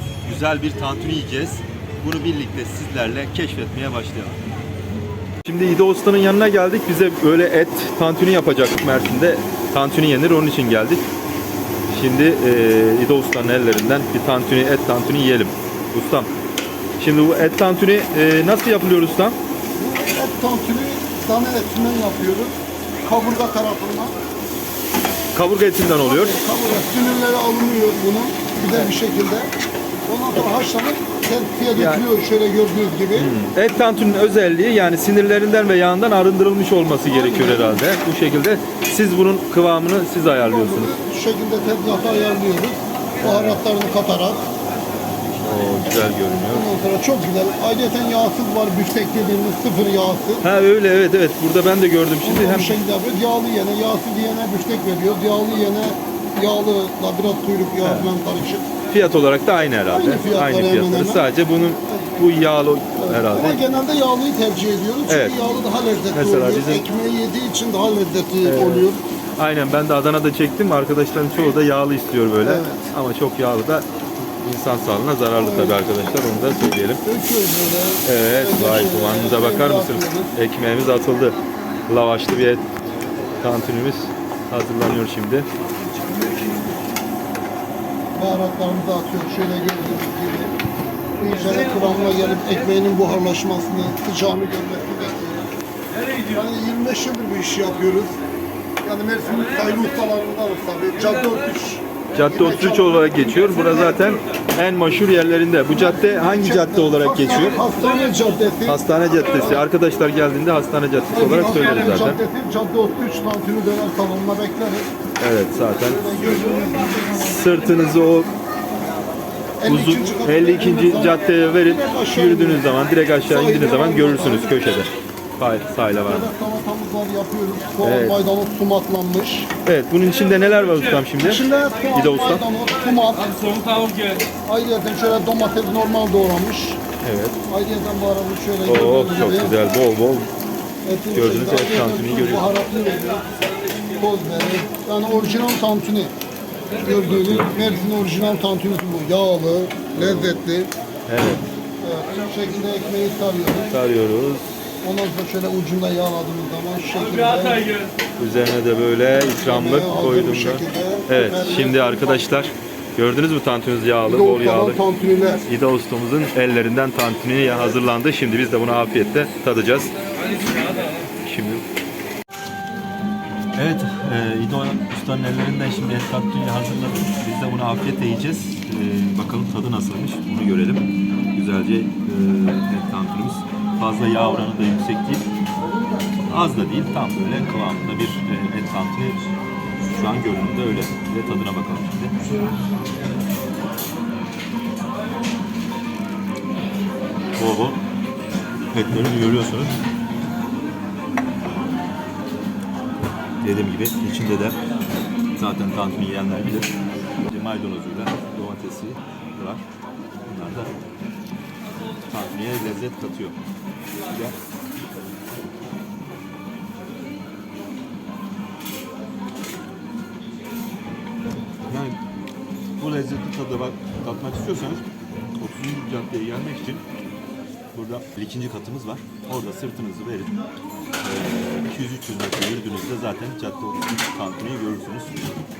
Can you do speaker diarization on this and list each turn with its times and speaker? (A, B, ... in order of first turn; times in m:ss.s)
0:00.2-0:04.4 A
0:05.4-0:11.0 A
0:11.9-0:16.3 A
0:17.0-0:19.4 A
0:19.8-0:24.1 B
0:25.3-0:26.4 A
0:26.0-0:29.5 B
0:30.1-0:33.3 B
0:31.8-0:32.0 A
0:33.1-0:40.9 A
0:37.0-0:37.9 B
0:40.3-0:44.4 B
0:43.2-0:43.6 A
0:45.3-0:46.7 A
0:46.5-0:50.4 B
0:50.4-0:52.8 A
0:52.2-0:58.7 B
0:57.8-0:58.1 A
0:58.9-1:03.6 A
0:59.8-1:01.2 B
1:01.9-1:02.2 B
1:03.0-1:09.0 B
1:05.1-1:05.4 A
1:06.1-1:06.8 A
1:08.4-1:13.9 A
1:12.4-1:12.9 B
1:14.4-1:17.0 A
1:15.3-1:16.0 B
1:17.0-1:20.3 B
1:18.0-1:21.4 A
1:21.9-1:22.7 A
1:23.4-1:25.5 A
1:25.8-1:26.7 B
1:28.2-1:30.5 B
1:31.2-1:35.5 B
1:36.3-1:38.2 B
1:38.8-1:44.2 B
1:42.1-1:47.6 A
1:45.7-1:49.6 B
1:48.6-1:52.2 A
1:51.1-1:54.9 B
1:55.2-1:56.1 A
1:55.7-1:57.3 B
1:57.1-1:58.3 A
1:59.6-2:04.8 B
1:59.6-2:06.3 A
2:06.0-2:09.5 B
2:07.8-2:08.2 A
2:09.6-2:12.4 A
2:11.2-2:13.7 B
2:14.4-2:16.8 B
2:17.0-2:17.4 A
2:17.5-2:19.6 B
2:18.6-2:20.3 A
2:20.8-2:23.3 B
2:21.1-2:22.5 A
2:23.9-2:26.1 B
2:26.8-2:27.8 A
2:26.8-2:30.7 B
2:29.9-2:30.5 A
2:31.1-2:31.4 A
2:31.8-2:33.7 B
2:33.7-2:34.4 A
2:34.8-2:37.8 B
2:38.2-2:44.8 A
2:39.3-2:42.4 B
2:44.0-2:45.4 B
2:45.5-2:49.9 A
2:51.2-2:51.6 A
2:53.5-3:05.3 A
3:06.3-3:09.3 A
3:09.9-3:12.2 A
3:17.4-3:17.8 A
3:18.7-3:19.7 A
3:23.4-3:24.6 A
3:25.4-3:26.7 A
3:27.2-3:29.6 A
3:30.2-3:30.7 A
3:32.1-3:33.4 A
3:34.1-3:34.3 A
3:41.7-3:42.0 A
3:42.8-3:44.8 A
3:45.4-3:46.8 A
3:47.7-3:50.3 A
3:51.0-3:55.1 A